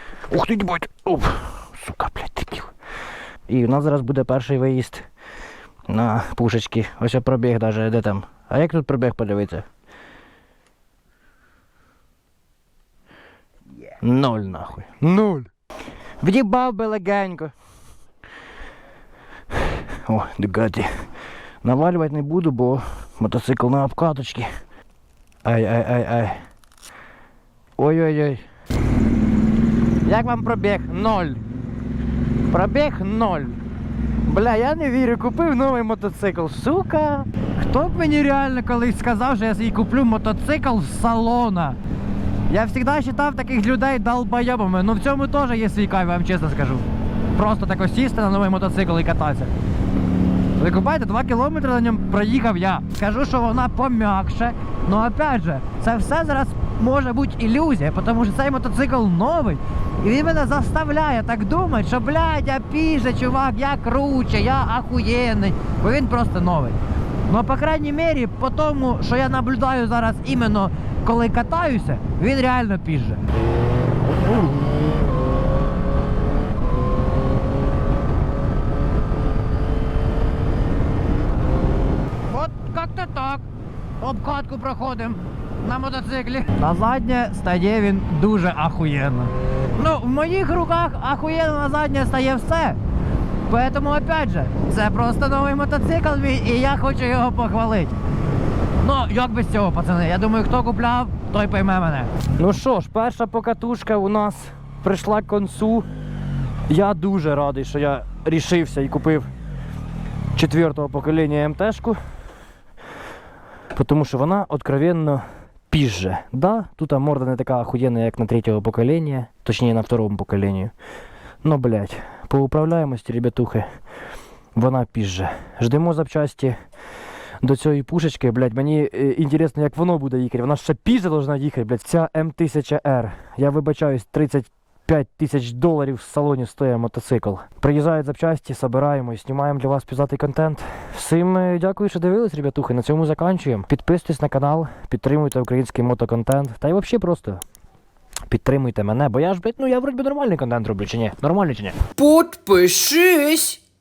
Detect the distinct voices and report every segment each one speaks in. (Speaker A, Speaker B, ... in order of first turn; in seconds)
Speaker A: 0.3-2.7, 3.5-5.0, 5.9-9.7, 14.0-15.5, 16.2-17.5, 20.0-20.9, 21.6-24.5, 25.4-26.4, 27.8-28.4, 30.1-31.1, 34.3-37.2, 102.3-105.8, 106.7-109.3, 110.3-112.0, 113.7-120.7, 121.4-123.7, 124.5-126.5, 127.4-147.4, 148.3-153.4
Speaker B: 30.1-31.4, 32.5-33.5, 34.8-35.8, 37.6-41.8, 42.5-49.5, 50.6-73.2, 82.3-83.4, 84.0-92.8, 93.5-97.9, 98.8-102.1, 152.0-152.9